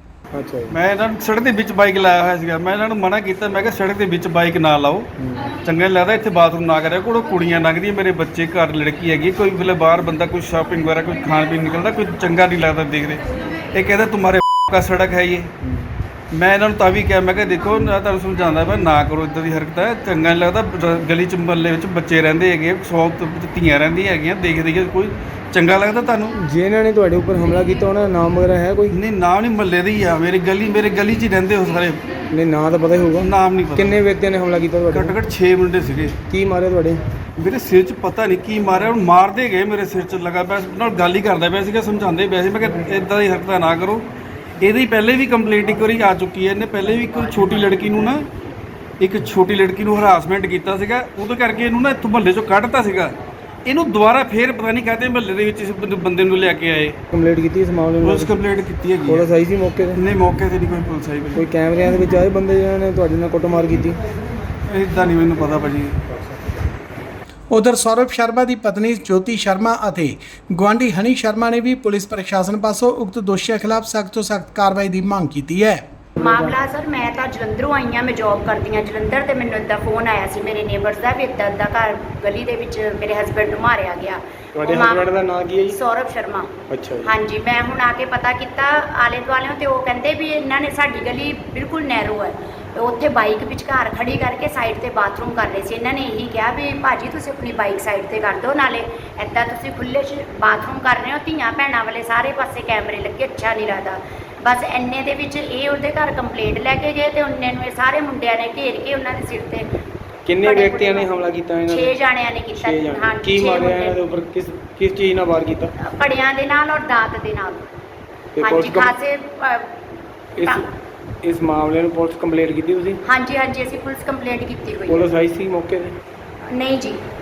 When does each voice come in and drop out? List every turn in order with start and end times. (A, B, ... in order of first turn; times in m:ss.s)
0:00.3-0:00.8 A
0:00.7-0:15.5 B
0:05.2-0:05.5 A
0:16.3-0:26.3 B
0:26.4-0:28.9 A
0:28.9-0:32.0 B
0:32.3-0:35.2 A
0:33.2-0:34.0 B
0:34.9-0:36.2 B
0:36.3-0:37.0 A
0:37.4-0:44.0 B
0:44.6-0:48.3 B
0:49.0-0:57.0 B
0:57.1-0:58.4 A
0:58.0-0:59.3 B
0:59.1-1:00.0 A
0:59.9-1:01.4 B
1:01.4-1:04.0 A
1:04.7-1:06.0 B
1:07.5-1:15.8 C
1:16.2-1:25.1 D
1:24.6-1:25.8 A
1:25.7-1:26.5 D
1:26.7-1:27.1 A
1:27.0-1:49.7 D
1:50.2-1:51.9 A
1:50.4-1:51.1 D
1:51.7-1:54.0 D
1:52.6-1:55.7 A
1:55.8-1:57.6 D
1:58.4-1:58.9 A
1:58.4-1:59.8 D
2:00.4-2:00.6 A
2:01.2-2:03.0 A
2:03.0-2:05.0 D
2:04.9-2:05.9 A
2:06.5-2:07.0 D